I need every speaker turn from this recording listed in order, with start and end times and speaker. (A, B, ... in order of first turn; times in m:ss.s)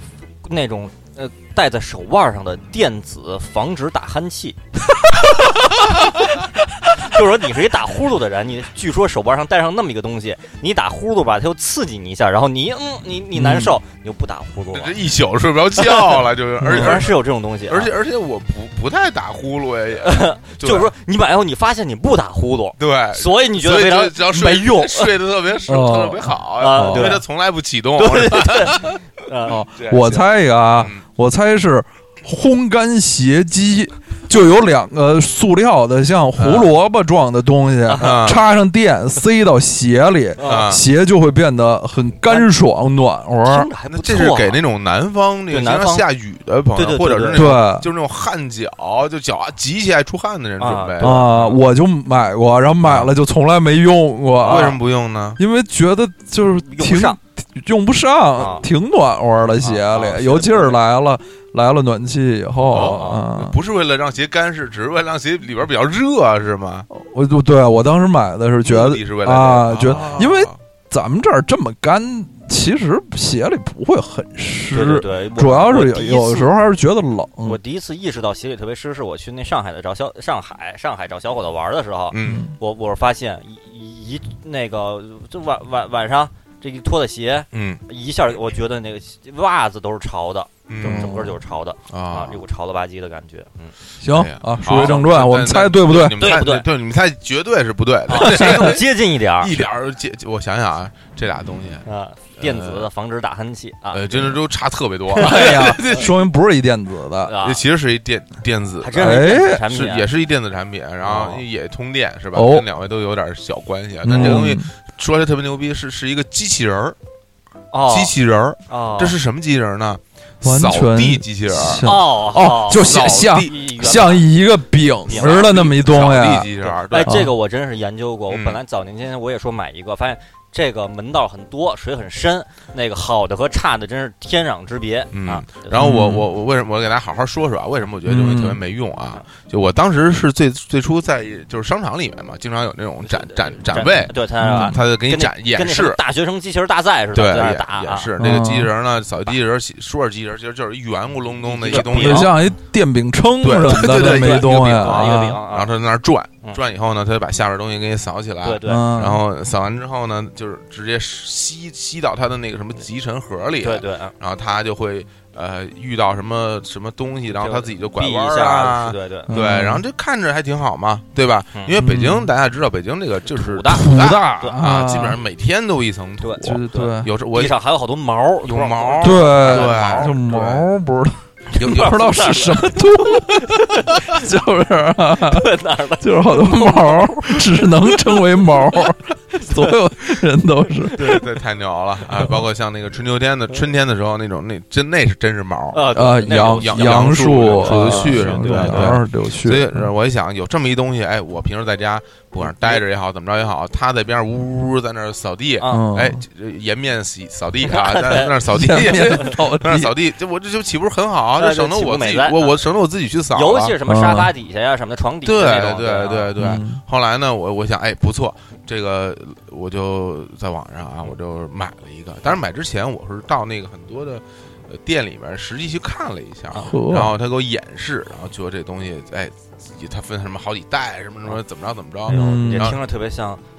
0:00.4-0:04.6 A
0:06.9-0:15.0 A
0:13.3-0:13.8 B
0:14.7-0:20.9 C
0:15.8-0:17.9 A
0:16.6-0:17.0 B
0:20.0-0:25.1 A
0:22.8-0:29.0 C
0:25.7-0:27.2 B
0:26.6-0:27.2 A
0:28.0-0:29.6 A
0:29.5-0:43.7 B
0:29.7-0:31.0 C
0:36.4-0:36.7 C
0:37.8-0:38.2 A
0:38.0-0:38.4 C
0:40.4-0:40.7 A
0:40.4-0:40.8 C
0:42.2-0:42.5 A
0:43.4-0:44.6 A
0:43.9-0:51.3 C
0:45.5-0:46.1 A
0:46.7-0:47.5 A
0:47.3-0:47.9 B
0:50.6-0:51.6 A
0:51.0-0:54.8 B
0:52.8-0:53.1 C
0:54.4-0:55.4 C
0:55.4-1:03.6 B
0:56.6-0:57.2 A
0:58.4-0:58.6 A
0:59.6-1:00.8 A
1:02.7-1:06.9 C
1:02.7-1:03.2 A
1:06.9-1:17.6 B
1:08.6-1:10.6 C
1:09.9-1:10.3 A
1:14.7-1:16.5 A
1:17.4-1:33.7 A
1:22.1-1:22.4 C
1:22.2-1:22.5 B
1:27.5-1:27.8 C
1:30.7-1:31.3 C
1:30.8-1:31.3 B
1:31.9-1:32.4 C
1:34.0-1:36.4 B
1:34.0-1:41.9 C
1:35.9-1:36.7 A
1:38.1-1:39.7 A
1:41.8-1:44.4 A
1:42.4-1:42.9 C
1:43.9-1:46.1 C
1:45.1-1:47.3 B
1:45.2-1:46.0 A
1:47.2-1:47.6 A
1:47.4-1:57.0 C
1:48.8-1:50.1 A
1:49.0-1:49.6 B
1:51.0-1:51.4 A
1:52.3-1:52.7 B
1:54.0-1:54.7 B
1:57.7-1:58.1 A
1:57.9-2:01.9 C
1:58.7-1:59.2 A
2:00.4-2:07.3 B
2:01.8-2:04.3 A
2:02.7-2:03.5 C
2:05.0-2:05.5 A
2:05.1-2:07.2 C
2:06.6-2:15.8 A
2:08.3-2:08.6 C
2:15.1-2:26.0 C
2:15.8-2:16.3 B
2:18.0-2:18.6 B
2:23.0-2:28.1 A
2:24.4-2:24.8 B
2:27.1-2:32.4 C
2:28.2-2:28.7 B
2:31.4-2:32.5 A
2:31.7-2:35.4 B
2:33.4-2:57.5 C
2:33.6-2:35.7 A
2:38.4-2:38.9 A
2:38.6-2:39.2 B
2:43.6-2:44.1 A
2:47.3-2:49.4 A
2:49.3-2:49.8 B
2:51.8-2:52.3 B
2:53.3-2:54.6 A
2:53.7-2:55.2 B
2:56.2-3:00.1 A
2:56.4-2:57.1 B
2:58.4-3:00.6 C
2:59.0-3:05.4 B
3:01.5-3:02.8 A
3:01.6-3:02.6 C
3:03.3-3:04.2 A
3:05.2-3:08.2 A
3:06.0-3:11.2 B
3:10.9-3:11.2 A
3:11.0-3:33.7 C
3:15.7-3:19.0 A
3:15.9-3:19.9 B
3:22.4-3:22.8 A
3:25.6-3:25.9 A
3:25.7-3:26.2 B
3:27.6-3:28.3 A
3:28.4-3:29.9 B
3:31.4-3:32.6 A
3:33.3-3:36.3 A
3:33.8-3:34.3 B
3:35.2-3:52.8 C
3:36.4-3:36.8 B
3:46.6-3:47.1 B
3:52.1-3:53.4 A
3:52.1-3:52.7 B